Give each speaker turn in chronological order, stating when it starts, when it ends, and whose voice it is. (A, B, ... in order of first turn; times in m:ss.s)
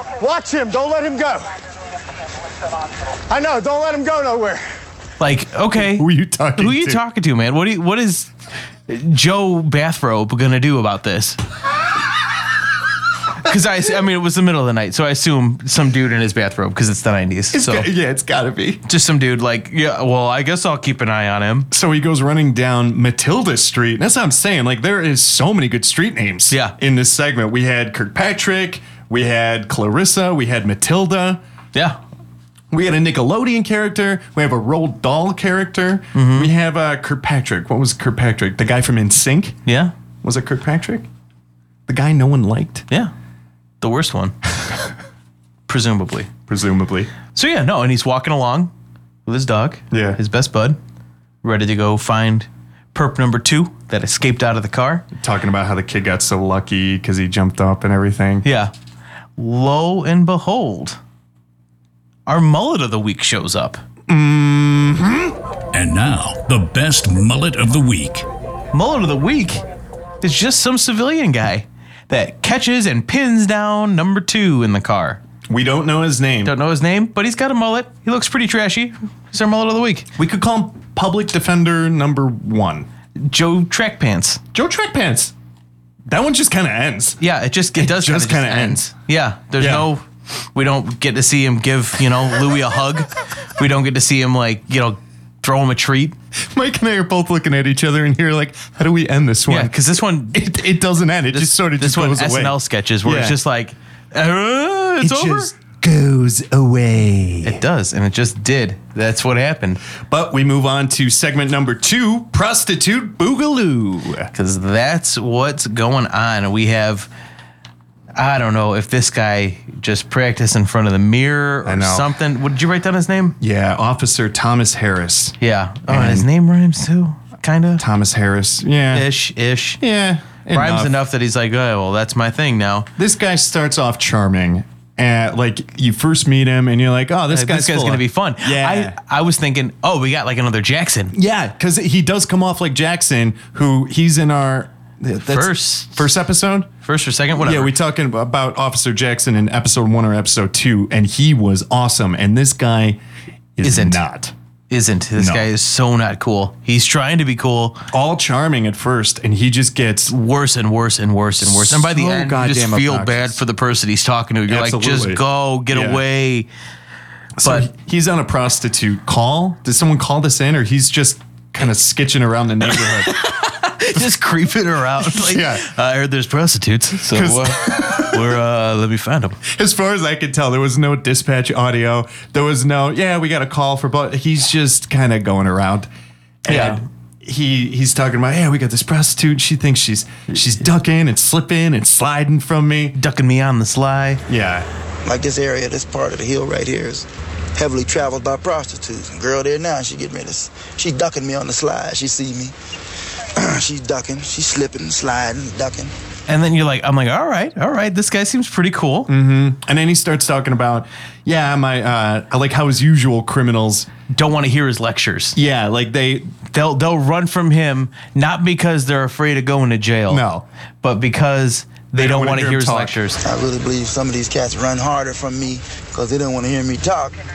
0:00.2-0:01.5 A
0:03.3-0:04.7 A
0:05.2-0:08.3 B
0:05.7-0:07.0 C
0:08.9-0:11.4 B
0:13.4-0:17.9 B
0:17.5-0:18.8 C
0:18.8-0:21.7 B
0:21.7-0:31.4 C
0:31.7-0:32.0 B
0:32.7-0:39.6 C
0:36.1-0:36.5 B
0:39.7-0:39.9 B
0:40.2-0:41.1 C
0:41.9-0:42.9 C
0:43.8-0:44.4 B
0:45.7-0:46.3 B
0:46.5-0:47.1 C
0:47.4-0:48.7 B
0:49.3-0:50.8 B
0:49.9-0:50.2 C
0:51.4-0:55.0 B
0:55.1-0:58.5 C
0:58.4-0:58.7 B
0:59.4-1:01.0 B
1:02.3-1:03.8 B
1:04.1-1:05.4 C
1:05.7-1:08.3 D
1:08.7-1:09.6 B
1:10.2-1:15.2 B
1:15.5-1:16.6 C
1:16.4-1:20.1 B
1:20.2-1:22.9 C
1:23.2-1:24.4 B
1:24.5-1:25.3 C
1:26.1-1:27.2 C
1:27.2-1:30.0 B
1:27.8-1:28.9 C
1:29.6-1:29.9 C
1:30.6-1:36.2 B
1:36.4-1:39.8 C
1:39.5-1:40.4 B
1:40.3-1:43.4 C
1:41.3-1:45.5 B
1:45.0-1:47.6 C
1:47.4-1:49.8 B
1:50.1-1:54.3 C
1:54.3-1:57.1 B
1:58.2-2:03.4 B
2:01.6-2:02.1 C
2:03.4-2:05.4 C
2:05.4-2:07.8 B
2:05.9-2:06.3 C
2:07.8-2:09.1 C
2:08.9-2:09.8 B
2:09.8-2:11.0 C
2:10.5-2:12.9 B
2:13.0-2:19.0 C
2:17.3-2:21.1 B
2:21.1-2:26.7 C
2:25.3-2:26.1 B
2:26.8-2:27.8 B
2:27.4-2:33.0 C
2:33.6-2:34.3 C
2:33.6-2:34.0 B
2:34.7-2:37.9 B
2:35.2-2:35.5 C
2:37.9-2:40.2 C
2:40.1-2:46.5 B
2:41.4-2:43.4 C
2:44.5-2:46.0 C
2:47.4-2:53.2 C
2:47.4-2:47.7 B
2:52.7-2:59.4 B
2:55.0-2:55.7 C
2:57.1-2:58.3 C
2:59.5-3:05.9 C
3:06.4-3:13.0 C
3:06.5-3:06.8 B
3:13.0-3:14.2 B
3:14.3-3:14.7 C
3:15.0-3:22.5 E
3:23.4-3:25.9 E
3:26.3-3:29.1 B
3:29.1-3:33.9 C
3:34.1-3:35.4 B
3:35.4-3:36.4 C
3:36.5-3:40.2 B
3:40.1-3:40.5 C
3:40.8-3:43.2 B
3:42.0-3:43.0 C
3:43.2-3:47.2 E